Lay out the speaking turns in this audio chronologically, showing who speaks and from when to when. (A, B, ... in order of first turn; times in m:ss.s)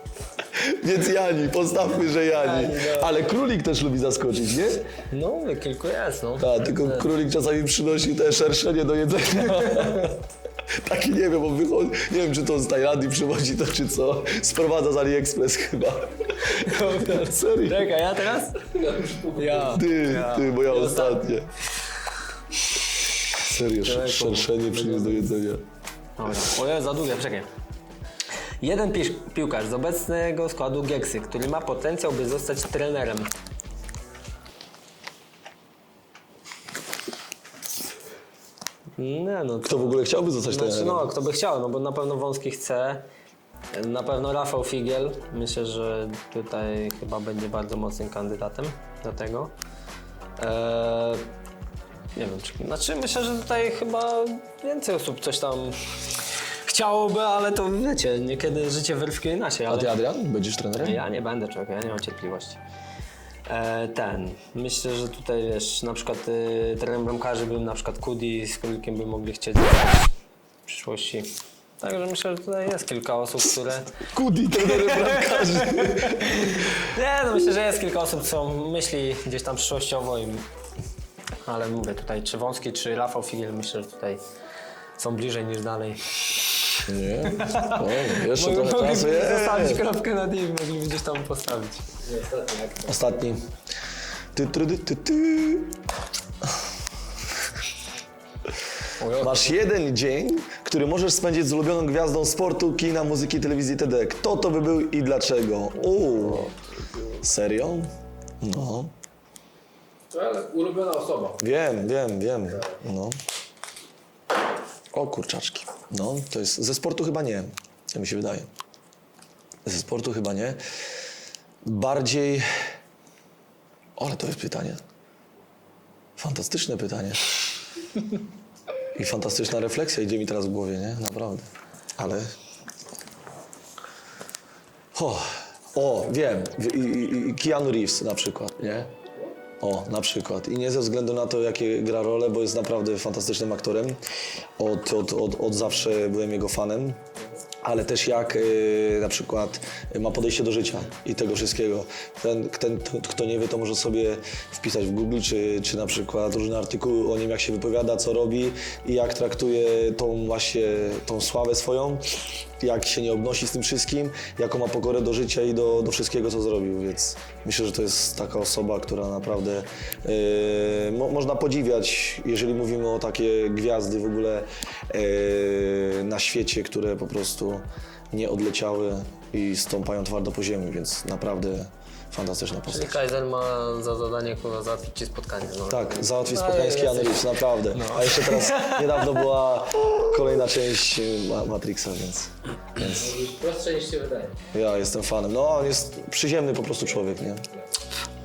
0:00.5-0:04.9 A
0:02.4-0:03.2 B
0:05.1-0:07.1 B
0:06.4-0:10.2 A
0:09.5-0:10.1 B
0:10.8-0:17.9 A
0:16.4-0:18.8 B
0:18.8-0:19.9 C
0:19.3-0:21.4 B
0:19.6-0:21.5 A
0:23.4-0:25.6 A
0:23.8-0:25.4 B
0:26.2-0:27.5 B
0:28.6-0:33.3 B
0:39.0-0:43.0 B
0:39.6-0:41.1 A
0:43.7-0:49.5 B
0:50.4-0:51.2 B
0:52.2-1:00.0 B
0:59.7-1:01.0 A
1:00.8-1:02.6 B
1:03.5-1:10.1 B
1:10.7-1:13.9 B
1:14.1-1:16.7 A
1:14.5-1:20.4 B
1:21.4-1:24.2 B
1:25.0-1:31.8 B
1:26.9-1:29.8 A
1:32.0-1:33.0 C
1:32.9-1:33.5 A
1:34.3-1:35.8 A
1:39.0-1:39.6 B
1:39.2-1:46.5 A
1:47.2-1:47.9 A
1:48.4-1:48.9 A
1:50.1-1:51.4 C
1:51.4-1:53.2 A
1:54.9-1:58.5 A
1:59.6-2:00.6 A
2:01.6-2:02.5 A
2:04.0-2:04.8 A
2:06.2-2:07.3 A
2:09.0-2:12.3 A
2:15.0-2:18.9 A
2:19.6-2:24.0 A
2:24.6-2:27.0 A
2:27.6-3:03.0 A
3:02.7-3:09.2 B
3:05.7-3:13.2 A
3:12.9-3:14.4 C
3:14.5-3:17.4 A